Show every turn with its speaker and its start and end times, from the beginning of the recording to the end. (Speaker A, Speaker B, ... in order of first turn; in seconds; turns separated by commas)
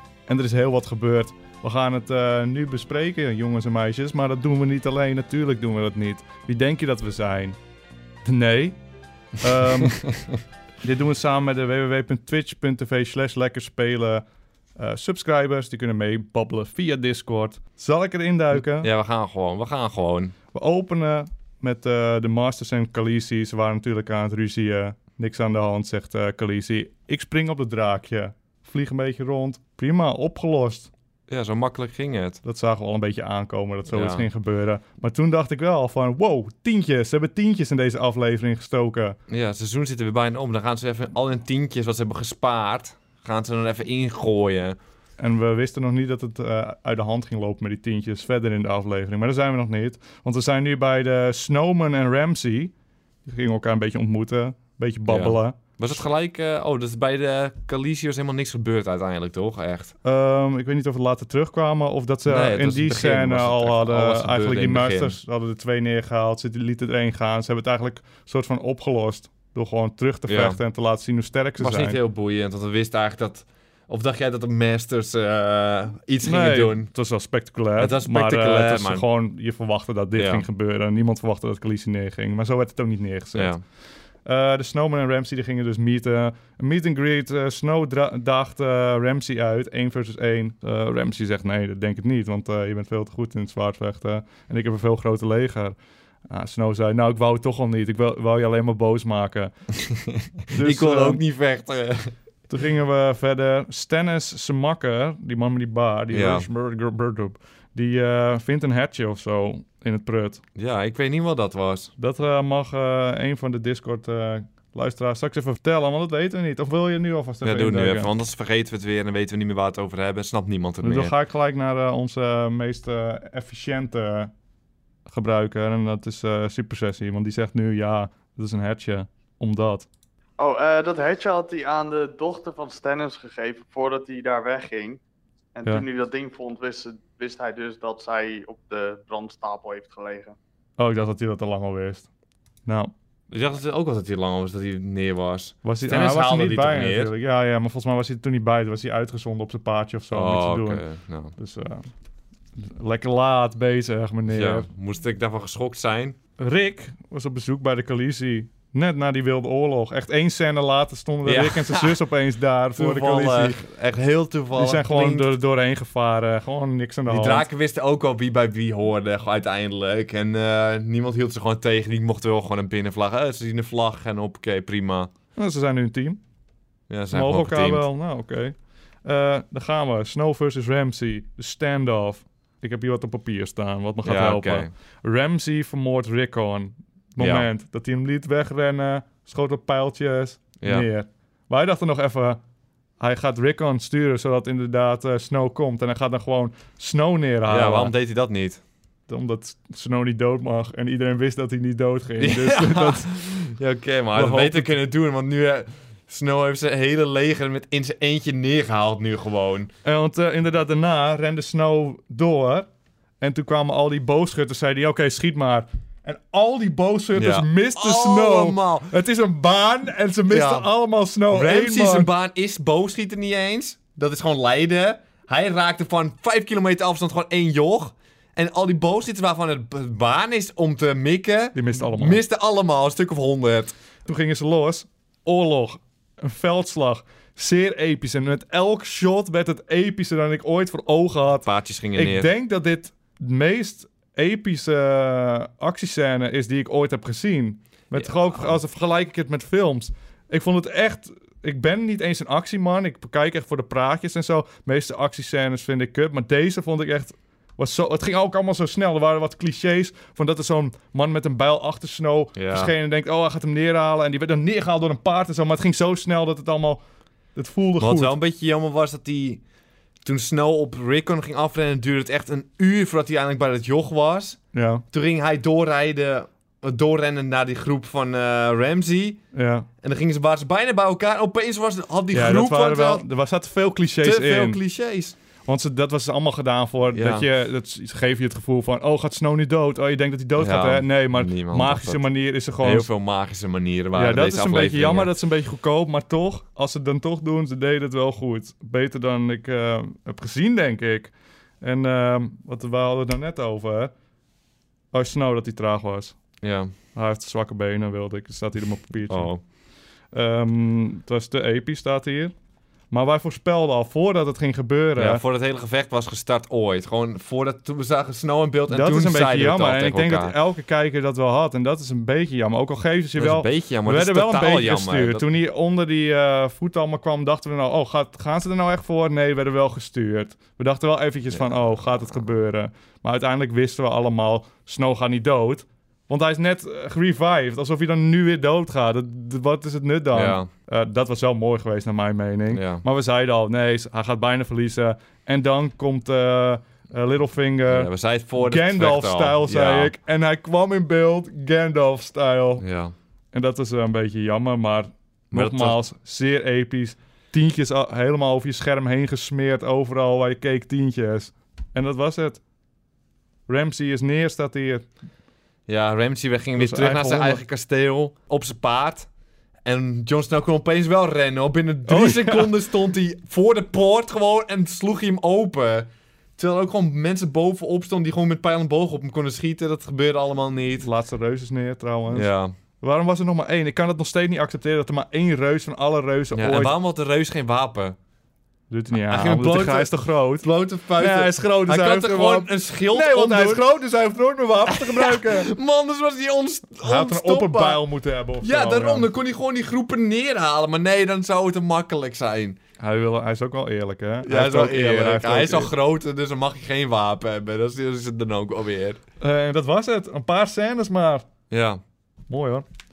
Speaker A: 0.3-7.6, Speaker A: 8.2-8.8, Speaker A: 9.4-10.0, Speaker A: 10.8-14.2, Speaker A: 14.8-18.9, Speaker B: 18.5-20.3, Speaker A: 20.5-30.9, Speaker B: 31.3-32.4, Speaker A: 32.4-39.2, Speaker B: 33.9-34.2, Speaker B: 39.3-44.8, Speaker A: 45.2-52.7, Speaker A: 53.2-55.6, Speaker B: 55.1-59.9, Speaker A: 60.0-72.0, Speaker B: 62.2-65.2, Speaker B: 70.3-70.6, Speaker B: 71.6-76.9, Speaker A: 76.2-83.5, Speaker B: 77.8-79.0, Speaker B: 80.1-80.5, Speaker B: 83.3-83.6, Speaker A: 84.2-95.8, Speaker A: 96.3-99.5, Speaker A: 100.5-101.2, Speaker B: 100.5-102.1, Speaker A: 102.5-110.4, Speaker B: 106.1-106.5, Speaker B: 110.5-111.9, Speaker A: 112.0-118.1, Speaker B: 117.4-121.1, Speaker A: 120.8-124.3, Speaker A: 125.1-129.9, Speaker C: 130.4-135.0, Speaker C: 135.6-140.3, Speaker A: 140.8-142.1, Speaker A: 142.7-142.9, Speaker B: 143.3-147.1, Speaker A: 145.6-150.8, Speaker B: 150.1-151.3, Speaker A: 151.4-151.9, Speaker A: 152.6-154.7, Speaker B: 154.3-156.2, Speaker A: 156.4-163.6, Speaker B: 161.2-162.0, Speaker B: 162.8-165.3, Speaker A: 164.6-167.5, Speaker B: 167.1-175.1, Speaker A: 175.3-176.2, Speaker B: 176.9-177.8, Speaker A: 177.1-192.4, Speaker B: 184.0-184.7, Speaker B: 187.2-187.5, Speaker B: 190.6-190.8, Speaker A: 193.0-197.9, Speaker B: 197.5-198.6, Speaker A: 199.1-203.1, Speaker B: 202.2-209.7, Speaker A: 204.1-204.7, Speaker A: 209.8-212.7, Speaker A: 213.2-222.1, Speaker B: 217.2-218.9, Speaker B: 220.3-220.7, Speaker B: 221.3-233.7, Speaker A: 231.6-232.2, Speaker A: 234.1-266.8, Speaker B: 241.4-242.3, Speaker B: 247.9-248.5, Speaker B: 262.4-262.7, Speaker A: 267.4-268.1, Speaker B: 267.8-269.4, Speaker B: 270.0-274.4, Speaker A: 274.5-274.8, Speaker B: 274.9-279.2, Speaker A: 279.3-279.7, Speaker B: 279.8-283.1, Speaker A: 282.1-284.6, Speaker B: 284.0-285.2, Speaker A: 285.5-292.9, Speaker B: 286.9-287.3, Speaker B: 290.4-292.1, Speaker B: 292.6-295.1, Speaker A: 293.9-303.9, Speaker A: 304.9-306.2, Speaker B: 306.4-306.7, Speaker A: 306.9-309.4, Speaker B: 309.1-309.4, Speaker A: 310.1-312.3, Speaker A: 312.9-315.2, Speaker B: 314.9-320.4, Speaker A: 318.7-352.6, Speaker B: 323.2-325.2, Speaker B: 331.3-332.3, Speaker B: 340.1-340.5, Speaker B: 342.5-342.8, Speaker B: 347.7-349.9, Speaker B: 352.6-352.9, Speaker A: 353.3-362.4, Speaker B: 355.3-355.8, Speaker A: 363.5-364.9, Speaker B: 365.7-369.1, Speaker A: 366.6-367.4, Speaker B: 369.6-380.9, Speaker A: 371.9-372.5, Speaker A: 380.8-382.3, Speaker B: 382.1-382.5, Speaker A: 382.8-386.7, Speaker B: 386.4-388.0, Speaker A: 388.7-395.5, Speaker B: 389.1-393.6, Speaker B: 394.7-397.8, Speaker A: 396.8-399.1, Speaker B: 398.4-402.6, Speaker A: 402.8-405.7, Speaker B: 404.2-409.0, Speaker A: 409.2-411.2, Speaker B: 411.5-411.8, Speaker A: 412.3-412.6